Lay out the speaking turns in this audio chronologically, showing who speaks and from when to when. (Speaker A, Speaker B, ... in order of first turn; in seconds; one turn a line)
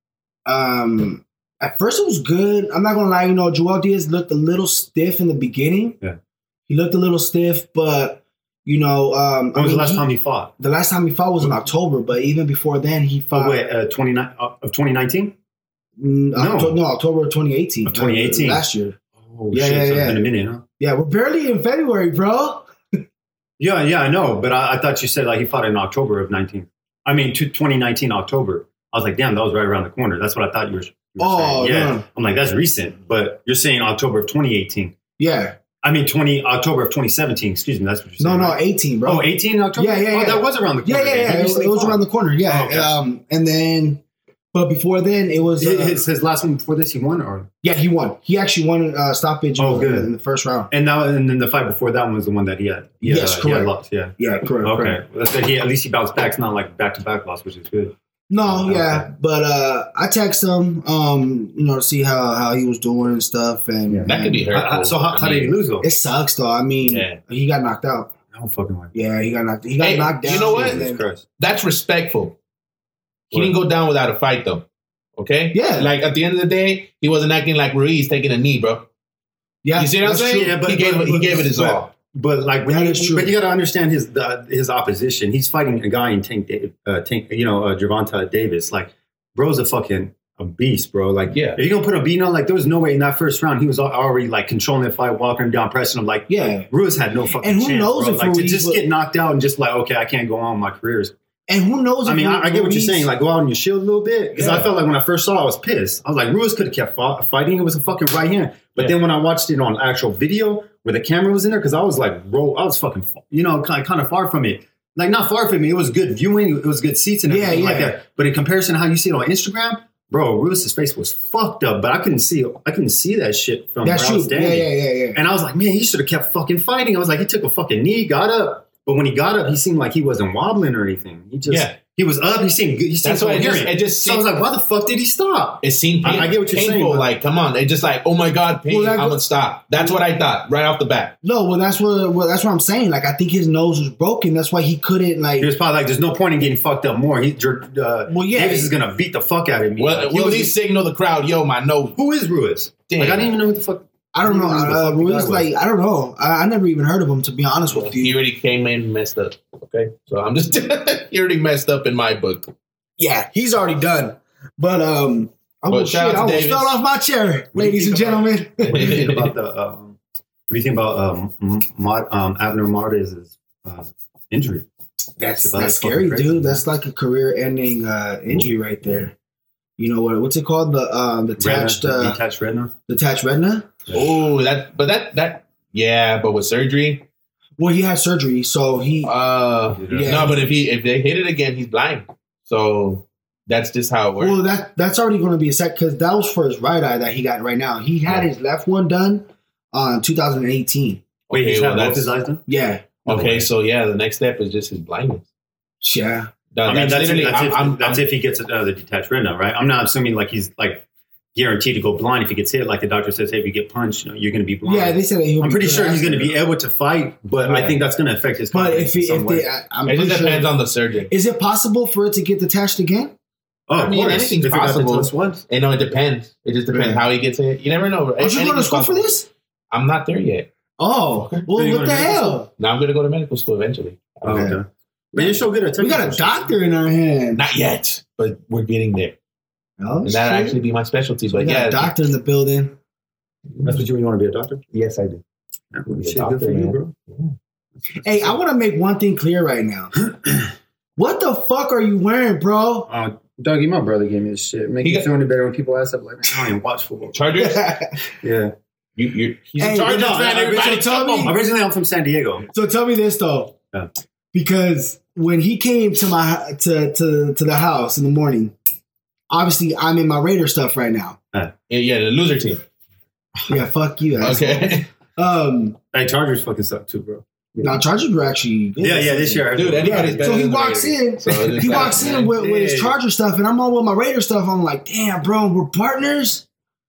Speaker A: 0.5-6.0
Speaker A: 6.7-10.1
Speaker B: 9.5-10.5
Speaker A: 10.6-13.6
Speaker B: 13.3-15.3
Speaker A: 16.0-19.0
Speaker B: 16.4-16.8
Speaker B: 17.9-18.6
Speaker C: 19.2-19.8
Speaker A: 19.5-20.2
Speaker B: 19.6-20.6
Speaker A: 20.8-22.7
Speaker B: 23.6-35.0
Speaker A: 31.2-32.0
Speaker A: 35.2-35.6
Speaker B: 35.8-42.9
Speaker A: 38.2-44.0
Speaker A: 44.5-46.0
Speaker B: 45.6-47.5
Speaker A: 47.6-50.7
Speaker B: 49.6-50.1
Speaker B: 50.7-58.0
Speaker A: 53.0-55.0
Speaker A: 58.3-64.5
Speaker B: 58.5-59.1
Speaker B: 63.9-65.8
Speaker C: 64.1-65.5
Speaker A: 65.8-68.1
Speaker C: 66.8-67.2
Speaker B: 68.3-68.9
Speaker A: 68.9-71.0
Speaker C: 69.8-70.8
Speaker B: 70.3-71.2
Speaker C: 71.4-72.4
Speaker C: 73.3-74.7
Speaker C: 75.2-78.9
Speaker A: 75.5-75.9
Speaker A: 79.6-81.8
Speaker C: 79.8-81.9
Speaker B: 80.3-81.2
Speaker B: 82.1-101.1
Speaker A: 82.7-83.3
Speaker C: 91.3-91.6
Speaker A: 96.3-96.7
Speaker A: 97.4-98.8
Speaker A: 101.5-103.1
Speaker B: 102.1-137.1
Speaker A: 104.4-104.7
Speaker A: 117.3-118.0
Speaker A: 123.8-125.2
Speaker C: 131.5-131.8
Speaker C: 133.0-134.3
Speaker C: 135.6-141.2
Speaker A: 138.7-140.0
Speaker A: 141.2-145.5
Speaker B: 145.4-150.5
Speaker A: 148.1-148.7
Speaker C: 149.8-152.0
Speaker B: 152.0-155.5
Speaker C: 152.9-153.3
Speaker A: 154.1-158.2
Speaker C: 157.7-162.5
Speaker A: 163.0-168.9
Speaker C: 165.7-166.8
Speaker C: 167.6-169.3
Speaker B: 168.6-170.0
Speaker B: 170.5-174.7
Speaker A: 175.2-179.2
Speaker B: 175.4-176.6
Speaker A: 179.8-182.2
Speaker B: 181.4-182.7
Speaker A: 182.9-183.8
Speaker C: 183.9-187.1
Speaker A: 187.6-189.1
Speaker C: 189.0-194.4
Speaker B: 189.8-190.3
Speaker A: 189.9-190.5
Speaker A: 194.2-201.0
Speaker C: 201.3-202.1
Speaker B: 201.3-202.4
Speaker A: 202.5-202.9
Speaker C: 203.0-205.3
Speaker B: 203.1-203.5
Speaker A: 205.8-206.3
Speaker C: 206.5-208.0
Speaker B: 206.7-219.5
Speaker A: 214.7-216.3
Speaker A: 217.4-217.8
Speaker A: 218.5-220.5
Speaker C: 219.9-221.1
Speaker A: 221.1-223.1
Speaker B: 223.7-225.4
Speaker C: 223.8-229.1
Speaker A: 226.7-227.0
Speaker A: 228.2-229.3
Speaker C: 229.7-230.5
Speaker A: 230.8-232.5
Speaker C: 231.2-231.5
Speaker B: 231.5-232.4
Speaker C: 232.6-234.6
Speaker A: 234.2-234.6
Speaker B: 234.2-236.6
Speaker A: 235.2-237.4
Speaker C: 237.4-239.2
Speaker A: 239.8-240.6
Speaker C: 240.0-241.9
Speaker A: 241.3-242.8
Speaker C: 243.5-243.8
Speaker B: 243.7-244.6
Speaker C: 244.7-245.2
Speaker B: 245.7-246.9
Speaker C: 245.9-247.3
Speaker B: 247.8-248.4
Speaker A: 248.0-250.0
Speaker B: 250.1-250.5
Speaker A: 251.0-252.9
Speaker B: 252.9-257.3
Speaker C: 254.8-255.1
Speaker C: 257.1-257.7
Speaker A: 257.4-258.0
Speaker B: 258.2-258.5
Speaker C: 259.0-261.3
Speaker A: 259.6-261.4
Speaker B: 259.7-260.7
Speaker B: 261.2-262.5
Speaker A: 262.5-263.5
Speaker A: 264.3-268.6
Speaker A: 269.3-271.2
Speaker C: 271.7-272.6
Speaker A: 273.5-275.8
Speaker C: 274.2-274.9
Speaker B: 275.9-277.8
Speaker A: 277.6-286.4
Speaker B: 278.8-280.4
Speaker C: 279.5-282.3
Speaker B: 281.3-282.9